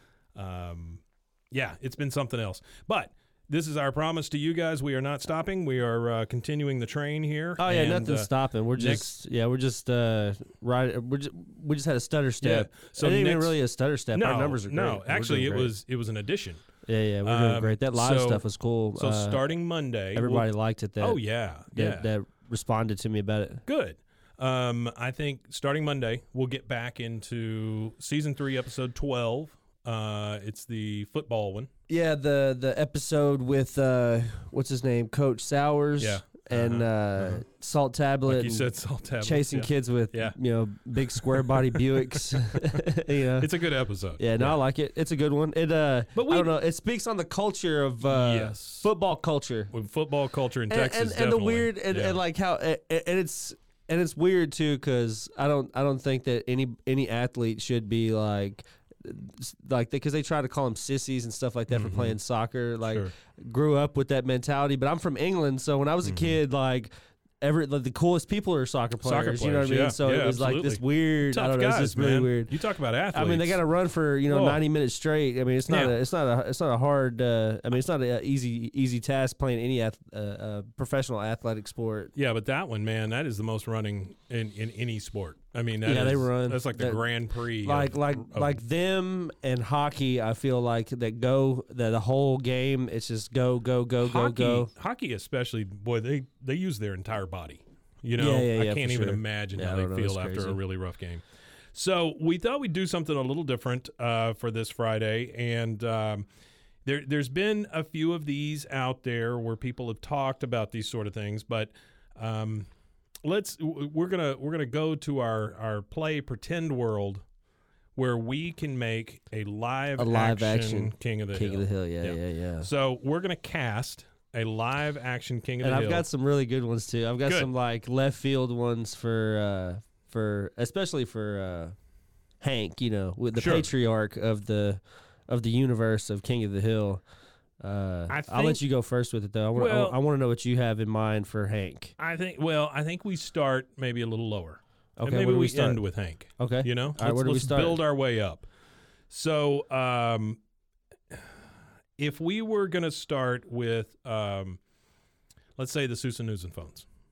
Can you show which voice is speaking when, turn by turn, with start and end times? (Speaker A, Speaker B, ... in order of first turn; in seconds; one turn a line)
Speaker A: 0.3-9.1
Speaker B: 7.6-15.7
Speaker A: 12.4-13.6
Speaker A: 14.1-16.6
Speaker B: 16.9-19.4
Speaker A: 17.2-18.4
Speaker A: 18.9-20.5
Speaker B: 20.1-21.2
Speaker A: 21.0-22.1
Speaker B: 21.7-23.6
Speaker A: 23.6-31.7
Speaker B: 31.9-38.6
Speaker A: 36.0-37.4
Speaker A: 38.2-40.4
Speaker B: 39.2-43.5
Speaker A: 40.9-42.9
Speaker A: 43.4-44.6
Speaker B: 44.2-49.7
Speaker A: 46.1-46.5
Speaker A: 48.0-48.9
Speaker A: 49.7-52.2
Speaker B: 50.7-72.5
Speaker A: 61.7-62.2
Speaker A: 62.8-63.1
Speaker A: 66.0-66.4
Speaker A: 69.0-73.6
Speaker B: 73.1-82.1
Speaker A: 74.3-74.6
Speaker A: 75.7-76.0
Speaker A: 82.2-88.6
Speaker B: 85.8-87.0
Speaker B: 87.6-94.7
Speaker A: 94.0-106.3
Speaker B: 98.2-100.6
Speaker A: 106.8-112.7
Speaker A: 113.2-117.2
Speaker A: 117.9-126.0
Speaker B: 120.0-122.7
Speaker B: 125.6-131.7
Speaker B: 132.4-137.0
Speaker A: 133.3-133.7
Speaker B: 137.6-141.9
Speaker A: 138.1-138.6
Speaker A: 139.5-140.0
Speaker A: 142.0-148.5
Speaker B: 145.0-145.8
Speaker B: 146.4-147.8
Speaker A: 149.1-150.4
Speaker A: 152.0-154.6
Speaker A: 155.6-156.9